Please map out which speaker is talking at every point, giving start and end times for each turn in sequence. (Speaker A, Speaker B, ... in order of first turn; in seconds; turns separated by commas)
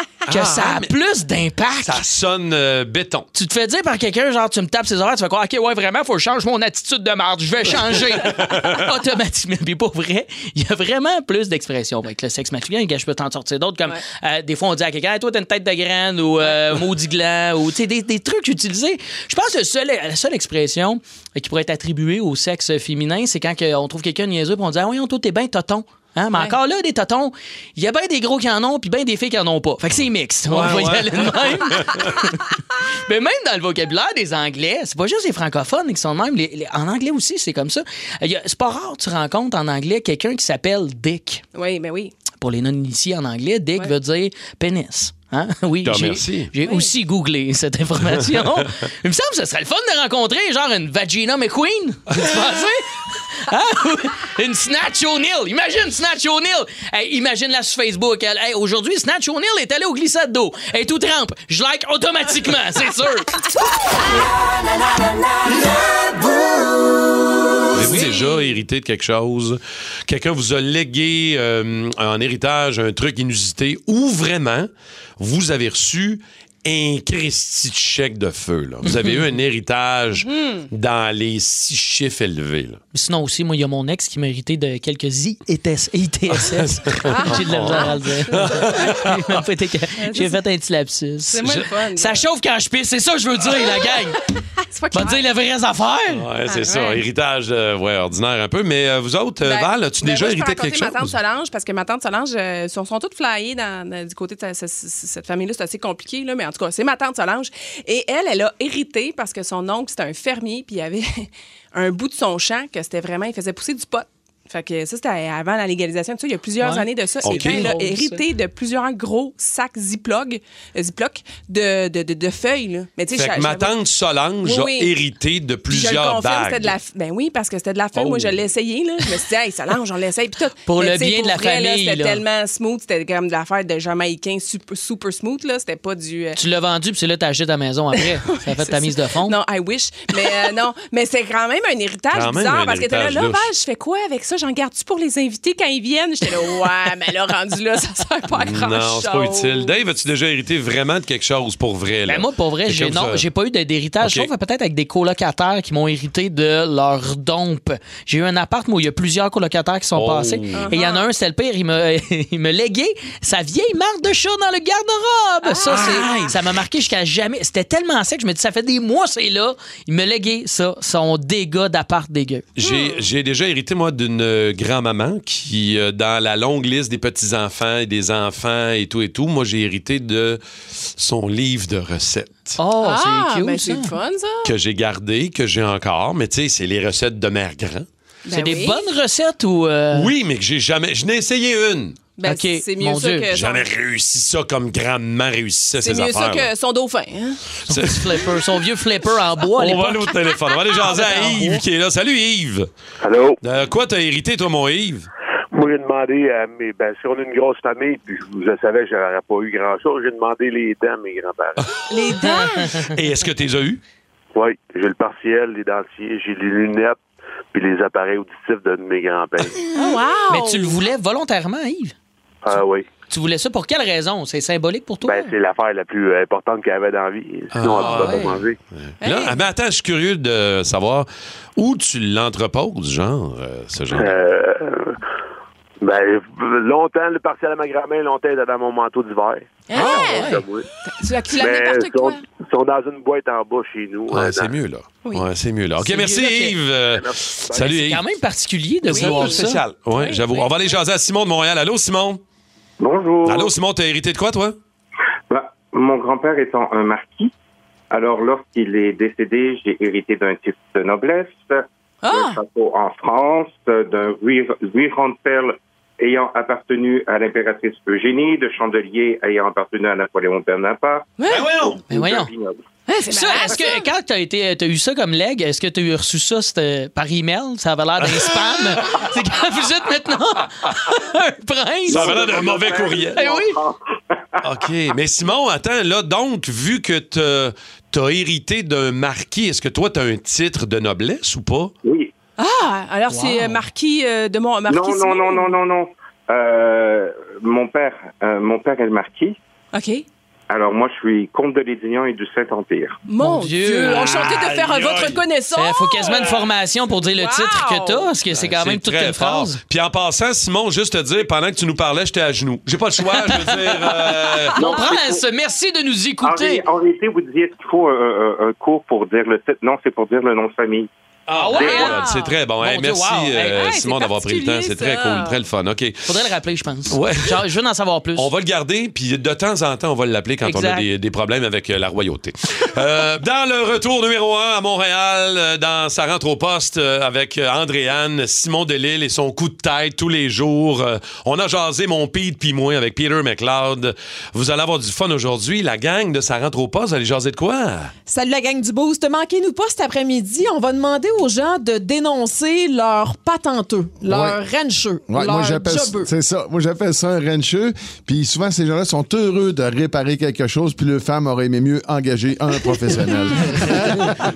Speaker A: 0.2-2.0, Speaker B: 0.3-0.9, Speaker B: 1.8-3.3, Speaker A: 3.3-32.5, Speaker B: 8.2-8.8, Speaker B: 30.5-32.2, Speaker A: 33.0-41.4, Speaker C: 41.5-42.1, Speaker A: 42.4-63.5, Speaker B: 45.8-46.5, Speaker C: 46.6-46.9, Speaker B: 67.7-82.8, Speaker A: 78.9-79.2, Speaker C: 80.2-80.7, Speaker A: 82.9-94.2, Speaker B: 86.4-89.4, Speaker C: 87.1-89.0, Speaker C: 90.0-90.4, Speaker C: 91.3-92.2, Speaker C: 94.6-95.2, Speaker A: 94.9-96.3, Speaker B: 96.1-101.1, Speaker C: 96.5-97.0, Speaker C: 99.4-123.7, Speaker A: 116.6-118.2, Speaker B: 117.2-117.7, Speaker B: 123.1-126.7, Speaker C: 124.4-124.9, Speaker C: 125.7-136.4, Speaker B: 127.9-128.4, Speaker A: 130.7-132.2, Speaker A: 136.3-139.4, Speaker C: 138.0-149.7, Speaker B: 142.1-143.4, Speaker B: 148.3-153.2, Speaker A: 152.1-172.4, Speaker B: 154.0-154.3, Speaker B: 159.9-160.7, Speaker C: 160.5-161.1, Speaker C: 165.4-166.2, Speaker B: 165.7-166.3, Speaker B: 172.6-182.6, Speaker C: 172.6-173.1, Speaker A: 182.6-183.9, Speaker C: 182.8-184.5, Speaker B: 184.4-187.9, Speaker C: 188.2-188.8, Speaker A: 188.3-190.1, Speaker B: 189.9-192.0, Speaker C: 192.2-193.7, Speaker A: 192.2-193.3, Speaker B: 193.3-196.5, Speaker C: 195.8-197.4, Speaker B: 197.7-198.3, Speaker A: 197.7-200.1, Speaker B: 199.6-202.7, Speaker A: 200.8-201.6, Speaker D: 203.0-203.4, Speaker B: 203.4-205.1, Speaker D: 205.5-211.6, Speaker C: 211.9-212.8, Speaker B: 212.8-213.8, Speaker D: 214.3-217.0, Speaker D: 217.5-219.6, Speaker C: 219.7-220.8, Speaker A: 220.3-221.9, Speaker D: 222.4-222.8, Speaker A: 223.1-225.3, Speaker D: 225.0-228.6, Speaker B: 227.5-234.2, Speaker A: 227.7-228.4, Speaker C: 229.0-229.4, Speaker D: 233.9-235.0, Speaker D: 235.8-240.7, Speaker C: 239.7-242.2, Speaker A: 239.7-240.4, Speaker D: 241.3-244.6, Speaker B: 244.1-248.0, Speaker A: 245.8-246.6, Speaker D: 246.9-247.7, Speaker A: 247.6-249.6, Speaker B: 248.9-252.2, Speaker C: 248.9-249.4, Speaker C: 249.9-250.7, Speaker E: 252.8-253.5, Speaker B: 253.2-254.6, Speaker E: 255.3-257.3, Speaker E: 257.9-271.1, Speaker C: 262.0-262.4, Speaker C: 271.2-271.5, Speaker B: 271.3-271.8, Speaker E: 271.6-272.6, Speaker A: 271.9-272.3, Speaker C: 272.9-273.8, Speaker A: 273.1-283.6, Speaker B: 281.9-283.2, Speaker E: 281.9-283.8, Speaker B: 284.4-291.7, Speaker E: 291.8-292.1, Speaker C: 292.4-295.6, Speaker A: 293.1-293.6, Speaker E: 294.7-299.4, Speaker C: 299.7-300.0, Speaker E: 300.5-303.0, Speaker C: 303.1-306.4, Speaker A: 303.2-304.4, Speaker B: 303.9-305.2, Speaker A: 305.5-309.6, Speaker C: 307.1-308.1, Speaker B: 308.3-314.7, Speaker A: 313.2-316.6, Speaker E: 314.6-315.2, Speaker E: 316.2-320.9, Speaker B: 321.3-326.0, Speaker A: 321.3-322.1, Speaker E: 321.6-321.9, Speaker A: 322.6-323.6, Speaker C: 323.6-325.4, Speaker A: 326.0-328.3, Speaker B: 326.9-327.4, Speaker B: 328.1-347.9, Speaker A: 330.4-330.9, Speaker F: 348.1-356.1, Speaker G: 354.0-354.4, Speaker G: 355.1-364.1